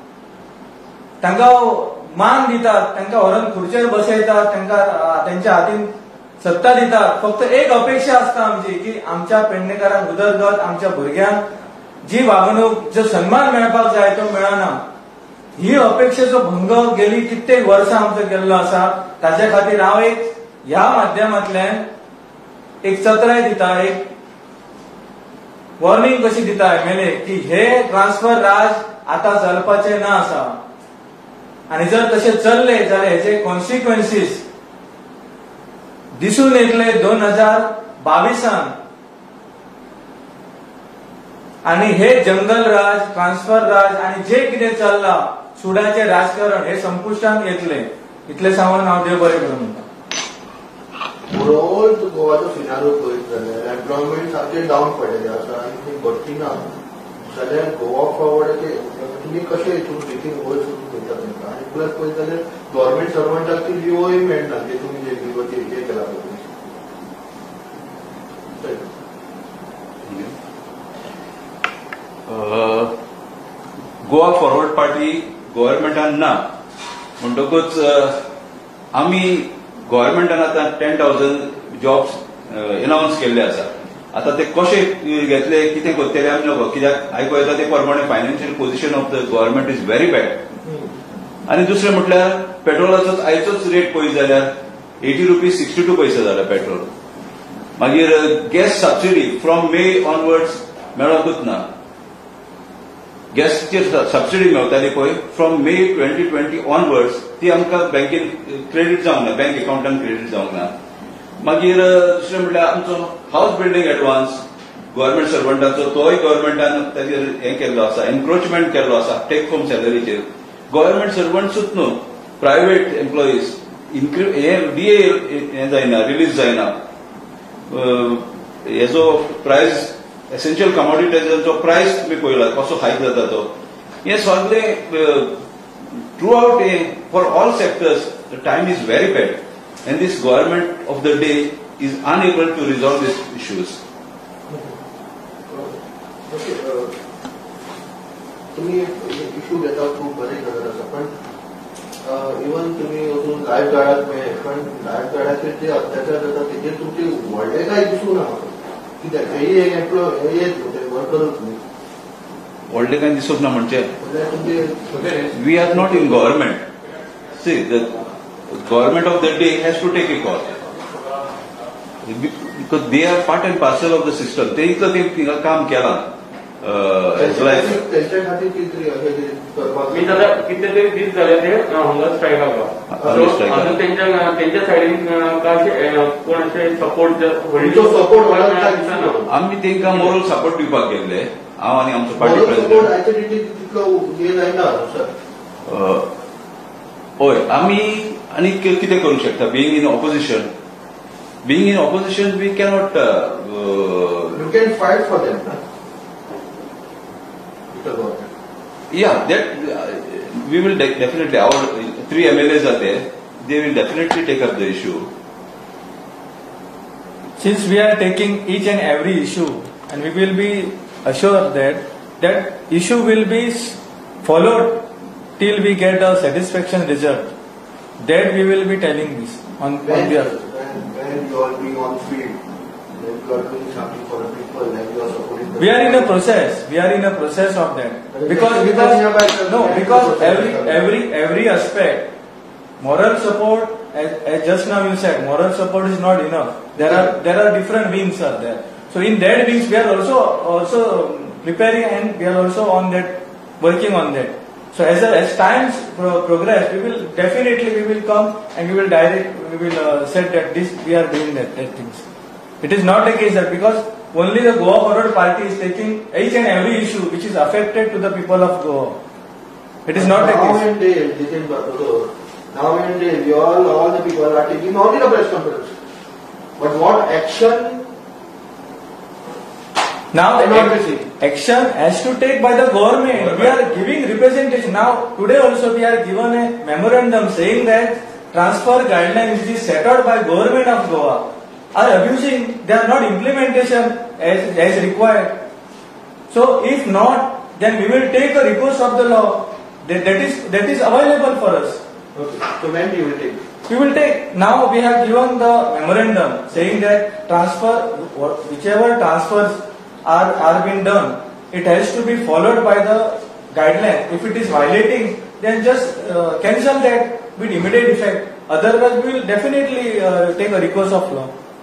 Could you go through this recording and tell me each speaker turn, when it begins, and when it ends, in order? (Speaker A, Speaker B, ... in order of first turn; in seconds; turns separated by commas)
Speaker A: 1.2-11.4, Speaker A: 12.0-14.8, Speaker A: 15.6-21.9, Speaker A: 22.8-24.1, Speaker A: 25.8-30.6, Speaker A: 31.7-34.5, Speaker A: 36.2-38.8, Speaker A: 41.6-49.9, Speaker B: 51.3-56.7, Speaker B: 57.3-66.5, Speaker B: 68.6-68.9, Speaker C: 70.1-70.3, Speaker C: 72.3-72.9, Speaker C: 74.0-76.4, Speaker C: 77.2-78.2, Speaker C: 78.9-90.4, Speaker C: 91.5-96.9, Speaker C: 97.8-101.7, Speaker C: 103.3-110.7, Speaker C: 111.4-126.7, Speaker C: 127.7-133.5, Speaker C: 134.0-135.4, Speaker C: 136.2-143.8, Speaker B: 144.5-144.7, Speaker B: 145.5-145.8, Speaker B: 146.3-146.9, Speaker B: 148.5-151.1, Speaker B: 152.0-161.6, Speaker C: 162.7-163.9, Speaker B: 164.0-166.4, Speaker C: 165.3-166.7, Speaker C: 167.3-170.5, Speaker C: 172.0-176.1, Speaker C: 176.6-177.8, Speaker B: 177.1-180.3, Speaker D: 179.9-189.2, Speaker C: 182.9-183.8, Speaker B: 187.6-189.3, Speaker C: 189.3-192.9, Speaker D: 189.8-190.1, Speaker B: 192.2-195.1, Speaker C: 195.7-196.1, Speaker C: 197.2-200.5, Speaker C: 201.4-204.4, Speaker B: 204.3-205.6, Speaker B: 207.7-208.3, Speaker C: 208.9-215.1, Speaker A: 217.4-224.8, Speaker A: 225.4-227.3, Speaker A: 228.0-230.3, Speaker B: 229.8-232.4, Speaker B: 232.9-236.2, Speaker A: 235.6-242.1, Speaker B: 238.1-240.8, Speaker A: 242.8-262.0, Speaker B: 246.8-247.1, Speaker A: 262.6-269.0, Speaker A: 269.9-270.6, Speaker B: 269.9-275.7, Speaker B: 276.6-277.9, Speaker A: 280.1-295.4, Speaker B: 280.4-281.1, Speaker A: 296.3-301.8, Speaker B: 302.1-303.4, Speaker A: 303.7-321.3